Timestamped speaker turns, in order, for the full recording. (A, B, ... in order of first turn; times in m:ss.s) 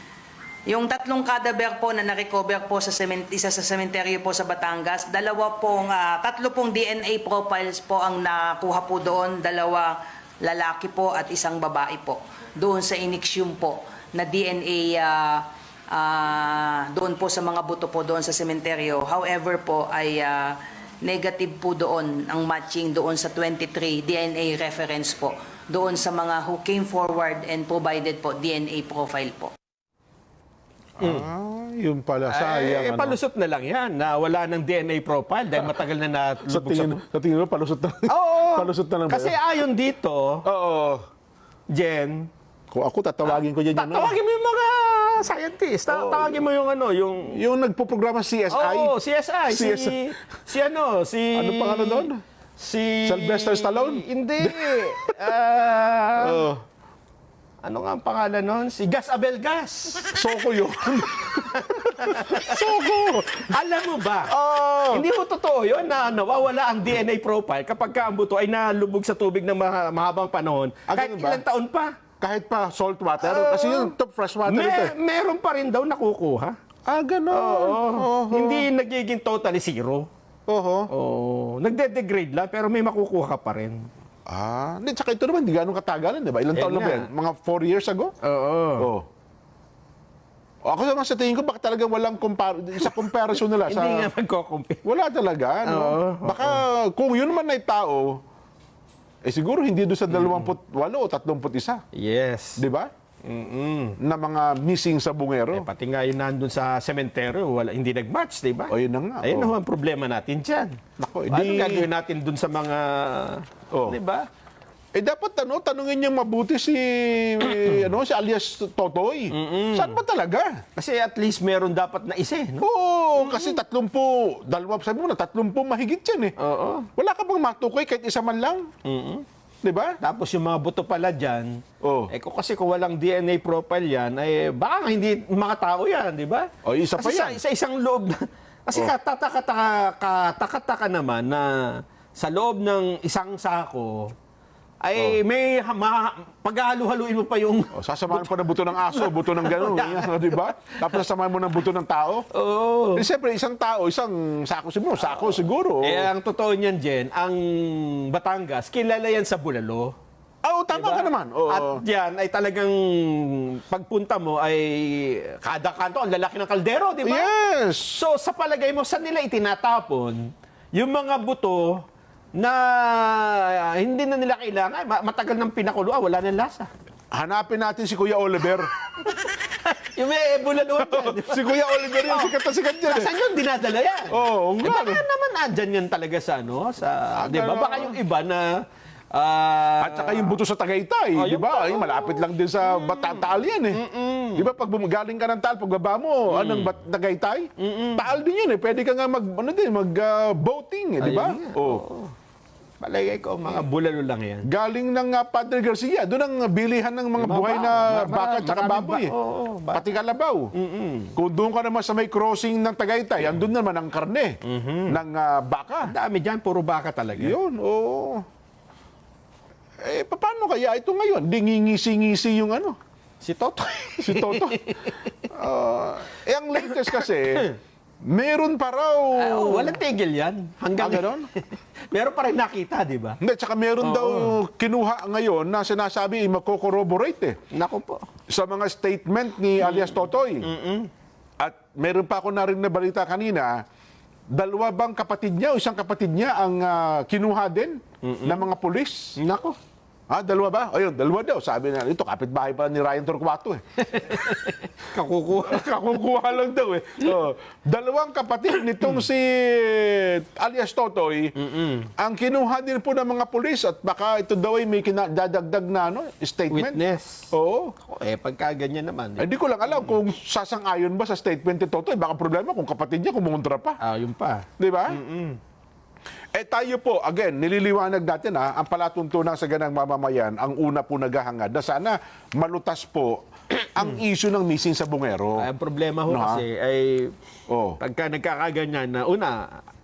0:00.7-0:29.5 A
0:31.0-0:33.2 B
0:31.0-0:31.3 C
0:32.3-0:37.0 C
0:36.5-0:39.4 B
0:38.1-0:40.4 C
0:40.4-0:41.0 B
0:41.7-0:42.3 C
0:42.7-0:44.2 B
0:43.3-0:47.4 C
0:45.9-0:46.4 B
0:47.3-0:48.9 B
0:48.5-0:56.4 C
0:49.5-0:50.0 B
0:51.4-0:52.2 B
0:53.0-0:55.3 B
0:56.2-0:56.6 B
0:57.6-1:00.2 C
1:00.1-1:03.4 B
1:01.4-1:02.6 C
1:03.3-1:04.3 C
1:04.3-1:05.1 B
1:04.9-1:11.9 C
1:10.9-1:11.4 B
1:12.2-1:14.9 B
1:13.2-1:14.0 C
1:14.5-1:16.6 C
1:16.9-1:18.7 B
1:17.3-1:20.1 C
1:20.5-1:20.9 B
1:20.9-1:23.9 C
1:24.3-1:28.1 B
1:26.5-1:27.1 C
1:28.2-1:28.9 C
1:28.8-1:29.1 B
1:30.6-1:34.1 B
1:32.8-1:34.8 C
1:34.8-1:38.2 B
1:35.7-1:36.6 C
1:39.2-1:41.8 B
1:40.1-1:40.5 C
1:42.0-1:42.6 C
1:42.6-1:42.9 B
1:43.2-1:44.0 C
1:44.0-1:45.7 B
1:45.5-1:50.8 C
1:48.7-1:49.5 B
1:51.0-1:51.9 B
1:51.3-1:54.3 C
1:53.7-1:54.0 B
1:55.0-2:00.6 B
1:59.3-2:00.0 C
2:00.8-2:02.7 C
2:02.6-2:06.4 B
2:03.2-2:03.6 C
2:06.4-2:06.9 C
2:07.0-2:08.6 B
2:08.8-2:09.2 C
2:09.6-2:10.0 B
2:10.0-2:11.5 C
2:11.8-2:12.1 B
2:12.1-2:21.5 C
2:16.6-2:17.4 B
2:22.2-2:24.1 C
2:24.8-2:31.0 C
2:27.7-2:32.3 B
2:32.3-2:33.1 C
2:33.0-2:36.1 B
2:35.0-2:39.9 C
2:40.4-2:41.8 B
2:40.7-2:47.3 C
2:47.0-2:48.0 B
2:47.9-2:50.2 C
2:50.7-2:51.7 C
2:52.4-2:56.7 C
2:57.1-2:58.7 B
2:59.0-3:01.4 C
3:00.8-3:03.1 B
3:02.1-3:08.5 C
3:04.1-3:05.0 B
3:07.2-3:08.0 B
3:09.1-3:10.4 C
3:09.8-3:13.8 B
3:11.2-3:14.5 C
3:14.4-3:21.8 B
3:16.3-3:16.8 C
3:17.6-3:18.1 C
3:21.0-3:22.1 C
3:22.8-3:24.5 C
3:24.4-3:29.1 B
3:27.2-3:30.0 C
3:29.7-3:30.5 B
3:30.6-3:31.2 C
3:31.2-3:34.4 B
3:34.4-3:35.0 C
3:34.9-3:35.9 B
3:35.8-3:37.4 C
3:37.2-3:38.2 B
3:39.8-3:42.8 B
3:43.2-3:45.2 C
3:44.0-3:47.5 B
3:46.7-3:47.5 C
3:48.0-3:49.8 B
3:49.2-3:53.2 C
3:50.8-3:51.3 B
3:53.2-3:57.4 B
3:53.8-3:54.3 C
3:57.5-3:58.0 C
3:58.3-4:00.5 B
3:59.6-4:00.9 C
4:01.4-4:03.6 B
4:04.3-4:09.2 B
4:08.0-4:08.5 C
4:09.2-4:09.6 C
4:10.1-4:13.6 B
4:13.9-4:15.8 C
4:15.4-4:21.3 B
4:21.4-4:21.9 C
4:22.0-4:26.8 B
4:26.5-4:27.3 C
4:27.3-4:27.7 B
4:27.9-4:30.0 C
4:29.2-4:33.8 B
4:33.8-4:35.4 C
4:34.6-4:35.0 B
4:36.3-4:45.5 B
4:45.4-4:47.1 C
4:46.1-4:46.4 B
4:47.5-4:47.8 B
4:47.8-4:49.6 C